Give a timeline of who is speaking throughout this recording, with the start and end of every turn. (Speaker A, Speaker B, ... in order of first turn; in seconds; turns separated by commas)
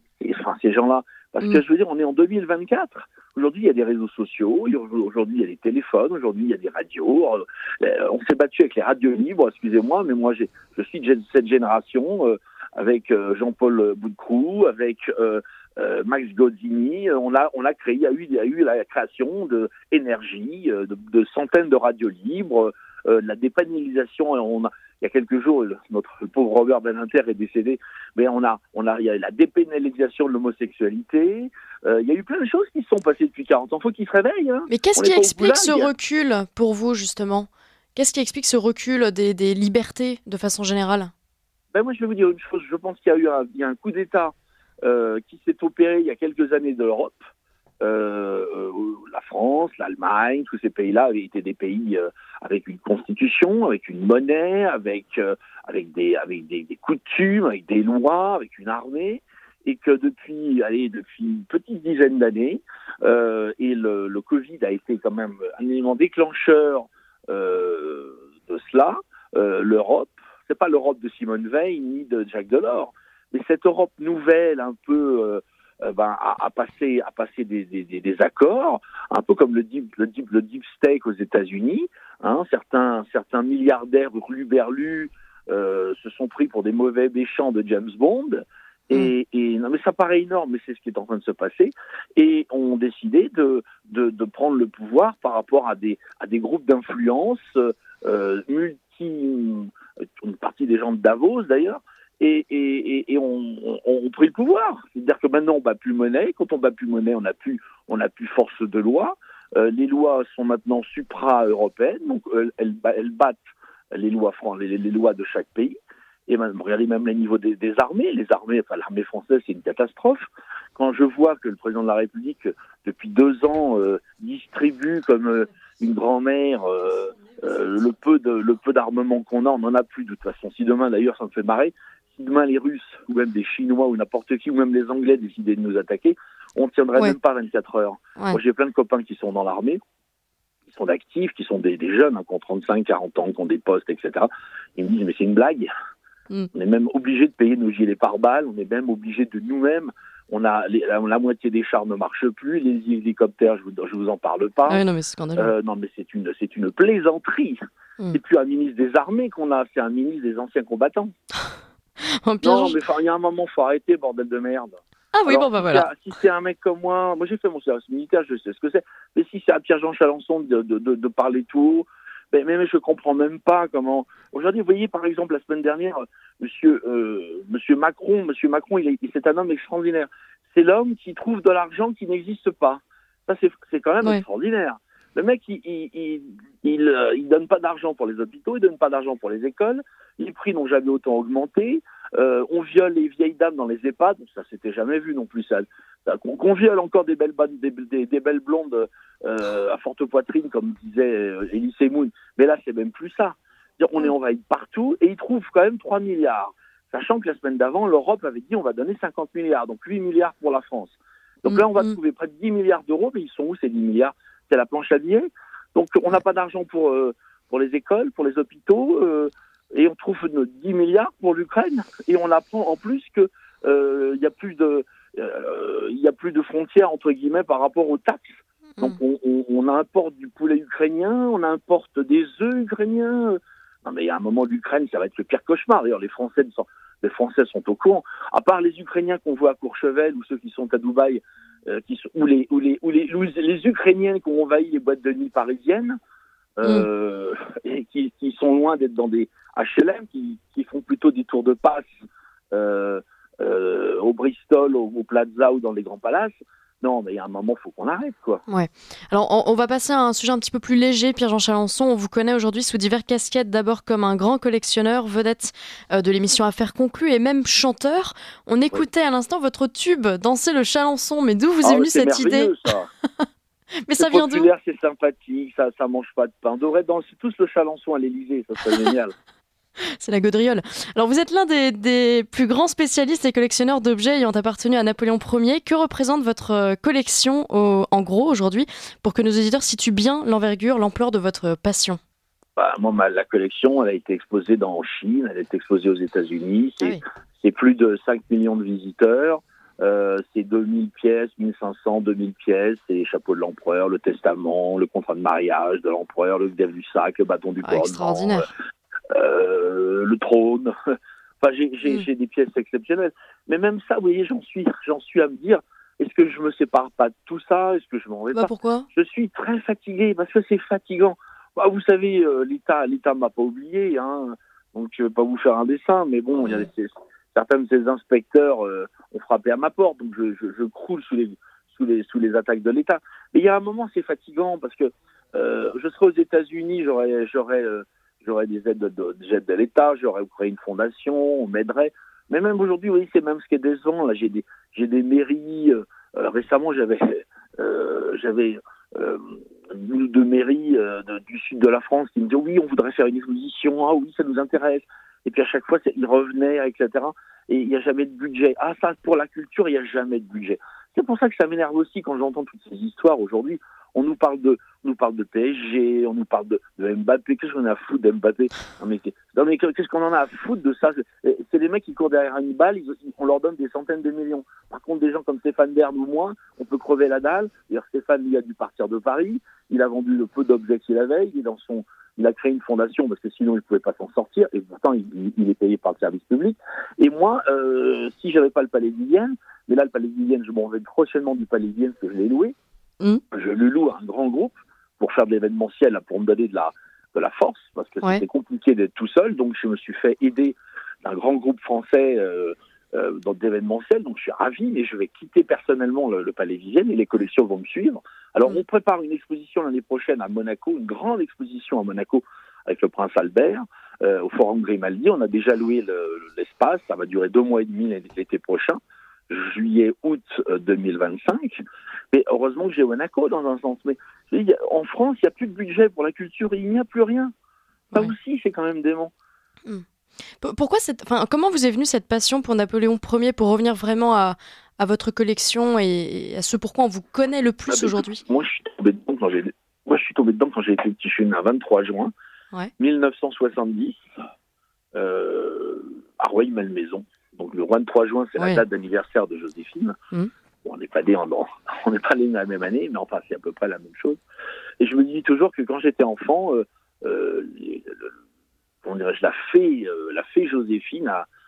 Speaker A: 0.2-35.9, Speaker B: 34.7-41.1, Speaker A: 41.7-47.2, Speaker A: 47.8-113.4, Speaker A: 113.9-115.8, Speaker A: 116.3-120.2, Speaker A: 120.8-139.8, Speaker A: 140.7-145.7, Speaker A: 146.5-154.8, Speaker B: 154.7-155.5, Speaker A: 155.3-157.6, Speaker A: 158.1-161.1, Speaker B: 162.0-162.8, Speaker A: 162.4-246.0, Speaker B: 165.1-165.9, Speaker B: 211.5-211.9, Speaker A: 246.6-251.9, Speaker A: 252.5-258.4, Speaker B: 258.5-273.3, Speaker A: 271.6-272.9, Speaker B: 273.8-274.5, Speaker A: 273.9-279.1, Speaker B: 279.9-292.0, Speaker A: 292.6-308.4, Speaker B: 307.6-308.5, Speaker A: 309.1-392.6, Speaker B: 318.3-318.9, Speaker A: 393.3-427.3, Speaker A: 427.9-429.1, Speaker B: 430.4-438.2, Speaker A: 437.7-442.1, Speaker A: 442.8-444.0, Speaker A: 444.9-450.0, Speaker B: 448.4-448.6, Speaker A: 450.6-454.2, Speaker A: 454.8-458.1, Speaker A: 458.8-461.3